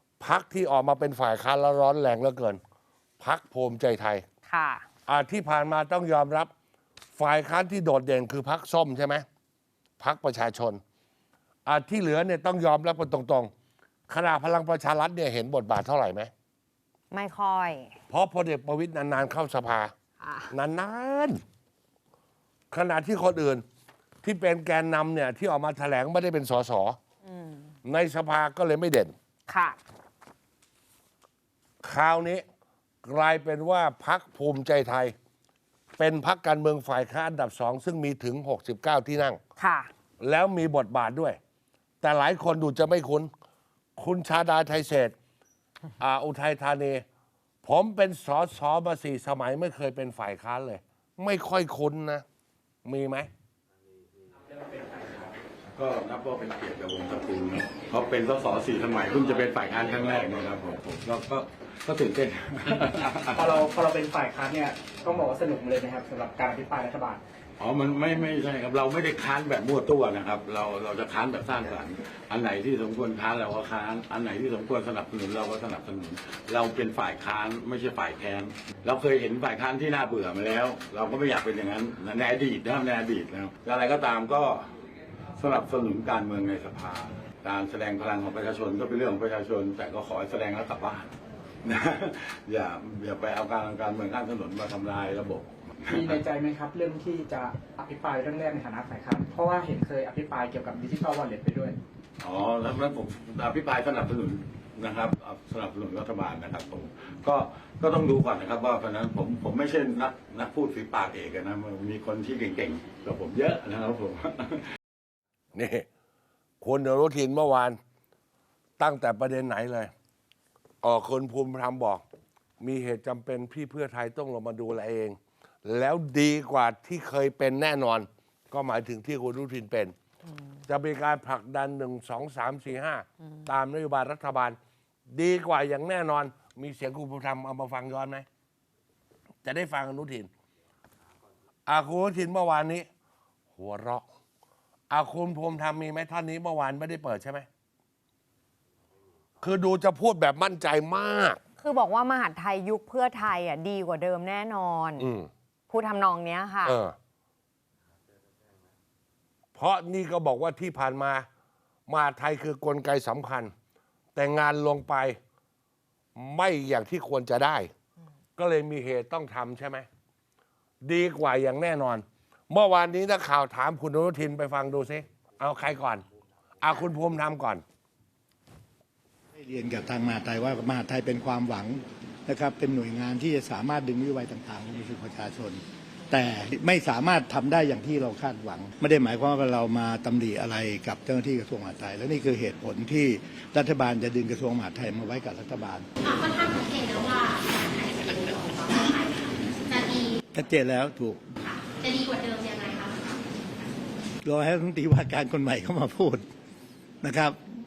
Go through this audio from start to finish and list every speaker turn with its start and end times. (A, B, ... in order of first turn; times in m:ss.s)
0:00.2-0:02.6 A
0:03.2-0:04.2 A
0:04.5-0:04.8 B
0:05.1-0:06.5 A
0:07.1-0:09.2 A
0:10.0-0:10.8 A
0:11.6-0:13.5 A
0:14.1-0:16.3 A
0:17.1-0:17.9 B
0:18.1-0:19.9 A
0:20.2-0:20.5 B
0:20.5-0:21.4 A
0:22.7-0:23.6 A
0:24.2-0:27.0 A
0:27.2-0:27.7 B
0:27.8-0:29.1 A
0:29.5-0:29.8 B
0:31.8-0:32.4 A
0:33.0-0:35.1 A
0:36.0-0:39.4 A
0:39.6-0:39.9 B
0:40.2-0:41.4 A
0:42.0-0:43.3 A
0:44.0-0:45.1 A
0:46.0-0:47.0 A
0:47.6-0:52.2 A
0:52.8-0:53.3 A
0:55.8-1:03.4 C
1:03.4-1:07.2 D
1:07.6-1:24.6 C
1:25.4-1:31.1 C
1:31.7-1:36.0 C
1:35.9-1:41.8 D
1:42.2-1:54.6 C
1:55.5-1:55.8 A
1:56.6-1:57.8 A
1:58.8-1:59.9 A
2:00.8-2:02.0 A
2:02.6-2:09.9 A
2:10.7-2:14.6 A
2:15.1-2:18.2 A
2:19.4-2:20.3 A
2:21.7-2:22.8 A
2:23.6-2:24.0 A
2:24.9-2:27.4 A
2:29.4-2:31.4 A
2:31.6-2:35.1 B
2:35.0-2:35.3 A
2:35.7-2:36.8 B
2:36.6-2:36.9 A
2:39.6-2:41.3 A
2:41.9-2:43.5 A
2:44.1-2:45.2 A
2:46.2-2:47.7 A
2:48.4-2:49.8 A
2:50.8-2:56.0 A
2:56.6-2:57.6 A
2:59.3-3:15.9 E
3:16.0-3:20.2 F
3:20.3-3:21.2 E
3:21.4-3:23.1 F
3:24.2-3:26.2 E
3:27.0-3:27.4 E